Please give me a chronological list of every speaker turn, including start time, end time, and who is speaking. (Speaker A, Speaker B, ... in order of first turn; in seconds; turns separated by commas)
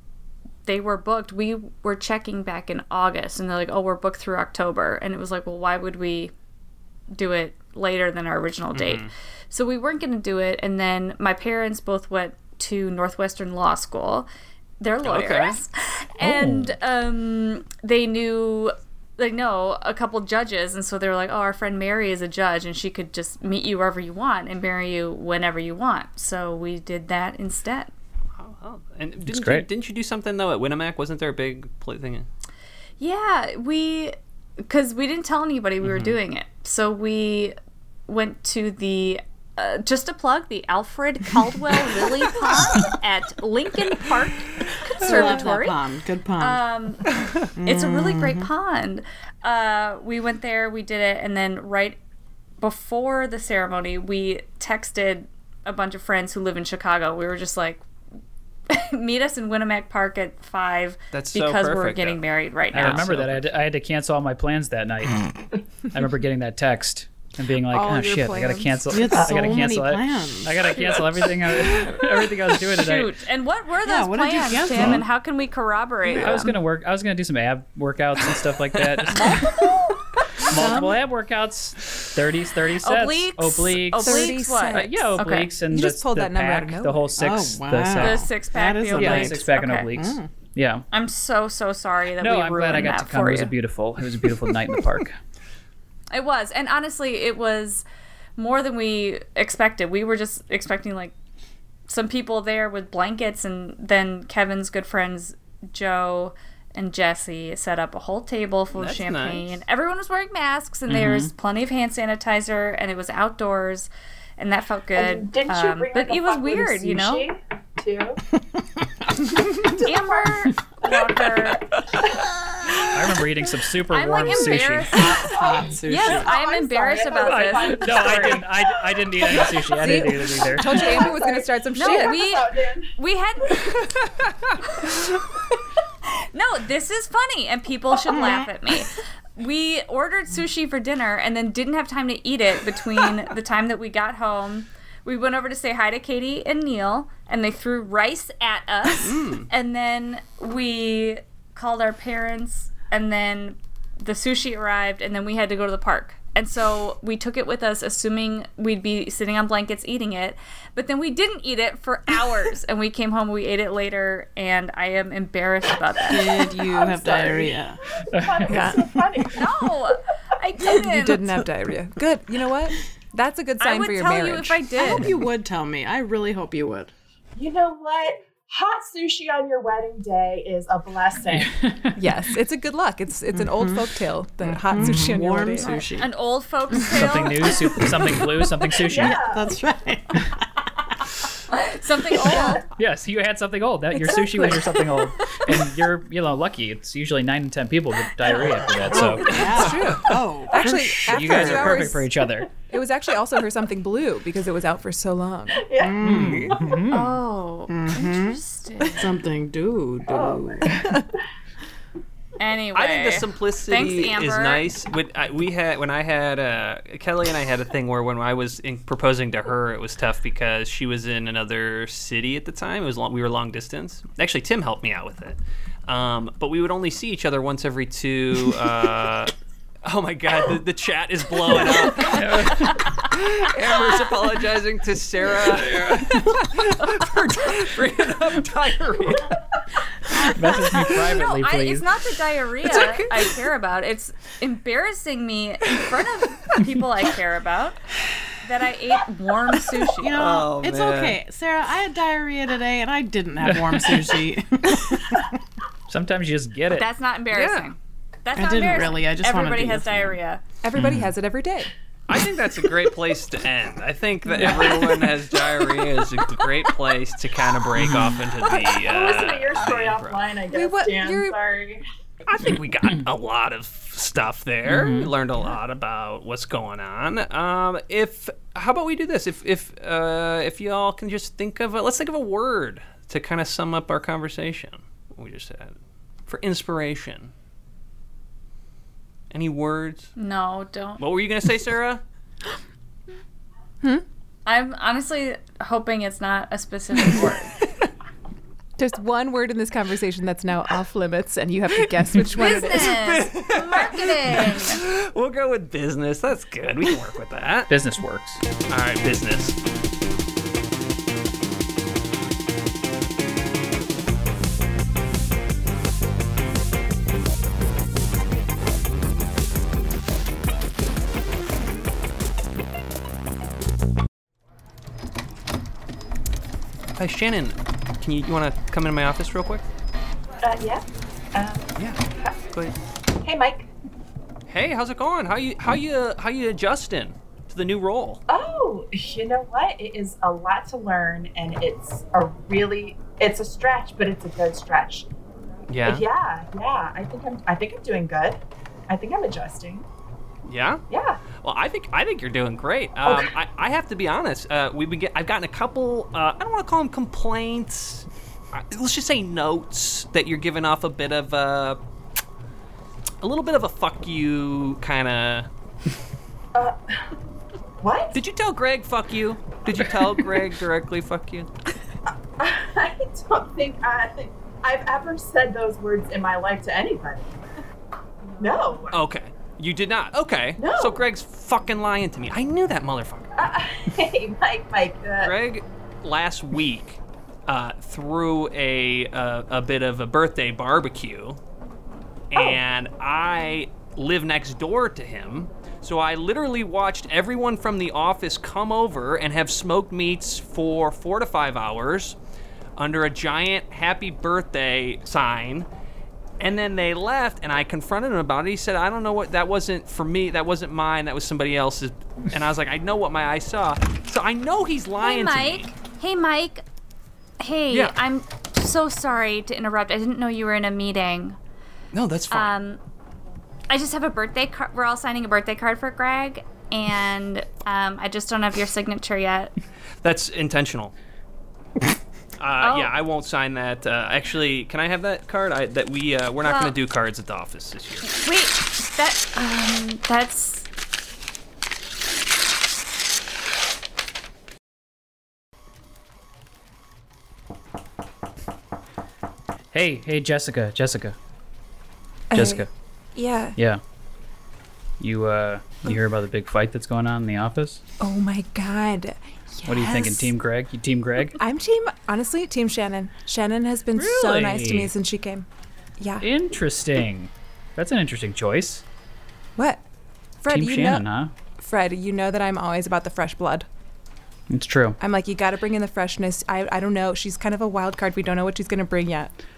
Speaker A: 0.7-6.3, Speaker A: 7.1-14.3, Speaker B: 8.7-9.1, Speaker A: 14.8-27.9, Speaker B: 15.0-15.6, Speaker C: 16.2-16.7, Speaker B: 28.4-32.3, Speaker C: 29.3-29.7, Speaker A: 33.0-37.5, Speaker B: 35.8-36.2, Speaker A: 38.1-45.8, Speaker D: 45.0-46.6, Speaker A: 46.4-52.0, Speaker D: 47.6-48.5, Speaker A: 52.6-57.8, Speaker A: 58.7-63.1, Speaker B: 61.1-62.2, Speaker B: 62.7-63.5, Speaker C: 62.7-65.3, Speaker C: 65.9-73.1, Speaker E: 67.7-68.9, Speaker D: 68.9-71.0, Speaker F: 69.2-69.5, Speaker A: 72.8-76.5, Speaker D: 73.8-75.0, Speaker C: 76.2-79.5, Speaker B: 78.9-79.5, Speaker C: 80.4-88.3, Speaker E: 80.6-80.9, Speaker D: 80.6-80.9, Speaker A: 82.8-85.5, Speaker E: 84.0-87.1, Speaker D: 87.2-90.3, Speaker A: 88.0-89.9, Speaker C: 89.0-90.8, Speaker A: 90.9-93.5, Speaker C: 92.2-95.2, Speaker A: 96.1-97.8, Speaker A: 98.4-101.1, Speaker A: 101.9-117.3, Speaker B: 108.8-109.5, Speaker C: 110.9-111.3, Speaker F: 115.0-118.2, Speaker F: 119.5-120.9, Speaker A: 119.6-121.7, Speaker C: 122.9-125.1, Speaker A: 123.9-128.4, Speaker F: 125.0-128.8, Speaker D: 125.0-126.3, Speaker C: 127.2-130.9, Speaker E: 129.7-132.2, Speaker F: 130.6-132.9, Speaker A: 131.7-133.8, Speaker B: 133.7-134.6, Speaker A: 136.3-166.6, Speaker D: 138.1-138.4, Speaker B: 149.0-149.5, Speaker D: 166.1-167.8, Speaker F: 166.7-169.5, Speaker C: 168.1-168.5, Speaker E: 168.5-168.9, Speaker A: 169.3-171.4, Speaker E: 170.6-174.9, Speaker A: 173.6-175.2, Speaker D: 174.8-176.9, Speaker F: 177.4-181.7, Speaker C: 181.6-182.0, Speaker E: 182.0-185.8, Speaker D: 183.4-183.9, Speaker D: 184.4-186.1, Speaker C: 184.8-185.1, Speaker A: 185.6-187.7, Speaker C: 186.9-189.2, Speaker D: 187.0-190.5, Speaker F: 188.9-189.5, Speaker A: 191.5-192.7, Speaker D: 192.3-192.6, Speaker C: 192.8-199.7, Speaker E: 194.2-194.6, Speaker D: 198.9-201.8, Speaker E: 199.5-202.1, Speaker B: 199.6-200.1, Speaker C: 201.1-202.5, Speaker E: 202.7-205.7, Speaker F: 205.6-206.8, Speaker D: 205.8-207.2, Speaker C: 206.0-207.1, Speaker A: 206.9-209.2, Speaker D: 207.7-210.9, Speaker F: 210.1-211.0, Speaker A: 212.4-214.7, Speaker B: 212.7-229.3, Speaker B: 229.8-239.4, Speaker C: 232.1-232.9, Speaker A: 232.6-232.9, Speaker C: 240.2-241.9, Speaker A: 240.3-247.9, Speaker B: 242.7-243.4, Speaker A: 248.4-250.2, Speaker D: 250.0-255.3, Speaker B: 250.2-251.2, Speaker C: 253.5-253.7, Speaker C: 255.9-256.9, Speaker A: 256.7-260.4, Speaker B: 257.3-257.7, Speaker D: 258.4-260.2, Speaker E: 260.6-261.7, Speaker C: 260.8-261.1, Speaker B: 262.1-270.2, Speaker C: 267.8-268.2, Speaker F: 268.5-271.8, Speaker E: 270.5-271.4, Speaker B: 272.3-287.3, Speaker C: 274.6-275.1, Speaker B: 289.3-290.1, Speaker A: 290.2-291.0, Speaker B: 291.0-292.0, Speaker A: 294.5-297.6, Speaker E: 298.8-302.9, Speaker A: 302.3-304.8, Speaker B: 302.8-307.7, Speaker C: 307.7-308.4, Speaker B: 308.7-309.6, Speaker B: 327.0-329.6, Speaker F: 330.4-332.4, Speaker F: 333.2-333.7, Speaker B: 334.5-338.2, Speaker F: 338.3-345.1, Speaker B: 345.7-346.1, Speaker F: 345.9-349.9, Speaker B: 350.4-350.8, Speaker F: 350.9-351.2, Speaker B: 351.3-361.8, Speaker F: 353.1-353.3, Speaker B: 363.2-365.5, Speaker F: 366.5-367.1, Speaker F: 367.8-368.2, Speaker B: 368.1-371.5, Speaker F: 372.4-377.3, Speaker F: 378.4-379.0, Speaker B: 378.9-383.3, Speaker F: 380.6-381.0, Speaker F: 383.4-385.4, Speaker B: 385.2-391.4, Speaker B: 392.3-402.2, Speaker B: 402.8-405.7, Speaker B: 406.4-415.7, Speaker A: 415.0-416.6, Speaker A: 417.4-421.4, Speaker B: 417.7-418.0, Speaker B: 421.9-422.5, Speaker A: 422.3-422.8, Speaker A: 423.7-429.5, Speaker B: 430.0-430.9, Speaker B: 432.4-438.1, Speaker A: 432.6-432.9, Speaker A: 436.4-436.8, Speaker A: 438.1-440.7, Speaker C: 449.7-451.2, Speaker E: 452.3-453.6, Speaker C: 452.3-452.7, Speaker C: 455.0-457.8, Speaker E: 458.0-460.3, Speaker C: 459.7-461.4, Speaker E: 461.4-465.5, Speaker C: 463.9-464.9, Speaker E: 466.0-466.3, Speaker C: 466.2-468.9, Speaker E: 469.6-469.8, Speaker E: 470.4-471.1, Speaker C: 470.5-471.3, Speaker E: 471.6-473.7, Speaker C: 474.5-475.0, Speaker E: 475.0-479.3